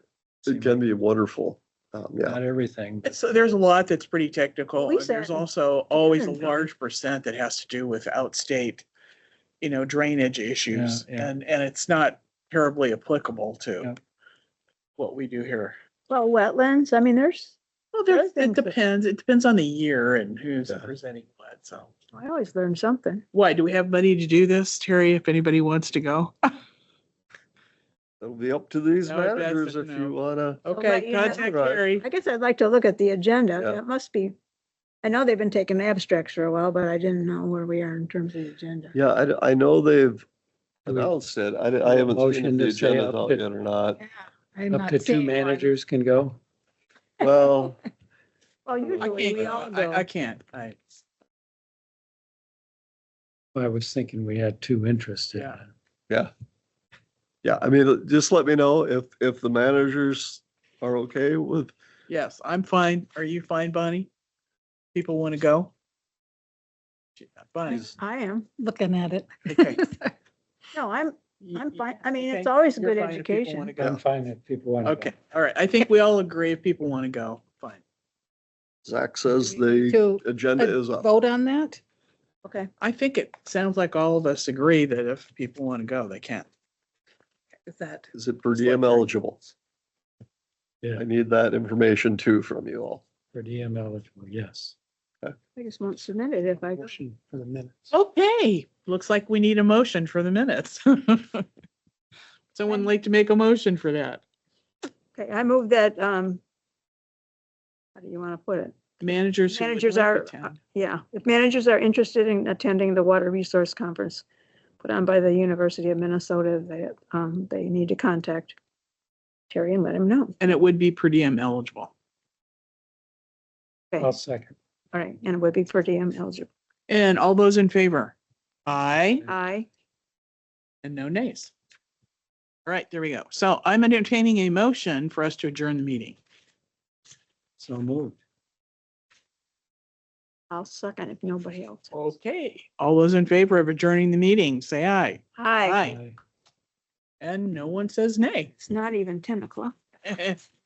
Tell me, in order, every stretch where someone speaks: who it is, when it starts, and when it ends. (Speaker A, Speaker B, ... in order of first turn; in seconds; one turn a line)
Speaker A: 0.4-0.9
Speaker B: 0.5-2.4
Speaker A: 2.2-3.2
Speaker C: 3.0-8.8
Speaker D: 4.8-6.7
Speaker C: 9.6-13.9
Speaker A: 10.7-11.3
Speaker C: 15.0-15.8
Speaker D: 16.1-17.6
Speaker C: 17.9-21.9
Speaker D: 18.1-18.7
Speaker D: 22.1-23.2
Speaker C: 23.3-26.4
Speaker B: 28.2-30.6
Speaker C: 29.0-32.0
Speaker D: 30.7-34.3
Speaker B: 31.2-31.8
Speaker D: 35.0-38.9
Speaker B: 38.9-40.2
Speaker A: 40.9-41.1
Speaker B: 40.9-44.0
Speaker A: 41.8-43.4
Speaker E: 44.0-45.7
Speaker A: 44.7-46.4
Speaker B: 47.2-47.8
Speaker D: 48.6-50.0
Speaker B: 48.8-49.6
Speaker C: 49.0-50.8
Speaker A: 53.5-55.7
Speaker B: 57.4-61.7
Speaker C: 62.1-64.1
Speaker C: 64.9-65.7
Speaker C: 67.2-67.9
Speaker D: 67.7-68.5
Speaker E: 68.6-70.1
Speaker C: 69.5-69.8
Speaker D: 70.7-73.7
Speaker C: 71.4-74.0
Speaker A: 73.8-75.1
Speaker C: 74.8-77.8
Speaker B: 78.8-81.1
Speaker D: 79.5-79.8
Speaker E: 79.8-81.8
Speaker D: 82.4-82.7
Speaker C: 82.8-86.5
Speaker E: 87.7-88.1
Speaker B: 88.1-89.4
Speaker C: 88.6-89.0
Speaker B: 90.9-93.0
Speaker A: 93.3-94.8
Speaker D: 95.5-96.9
Speaker A: 96.8-97.9
Speaker C: 97.9-101.5
Speaker C: 102.5-104.2
Speaker D: 105.1-106.4
Speaker D: 108.0-108.8
Speaker C: 109.0-110.6
Speaker D: 109.5-114.2
Speaker D: 114.8-118.5
Speaker D: 119.5-120.4
Speaker C: 120.4-121.9
Speaker A: 124.0-124.5
Speaker D: 124.9-126.5
Speaker C: 126.9-128.1
Speaker C: 128.7-129.2
Speaker D: 129.2-129.7
Speaker C: 130.8-131.5
Speaker C: 132.7-136.2
Speaker A: 137.6-138.2
Speaker D: 140.5-141.9
Speaker C: 141.9-146.0
Speaker D: 145.4-145.9
Speaker A: 145.8-146.2
Speaker C: 147.2-148.5
Speaker D: 148.6-149.7
Speaker C: 150.0-150.4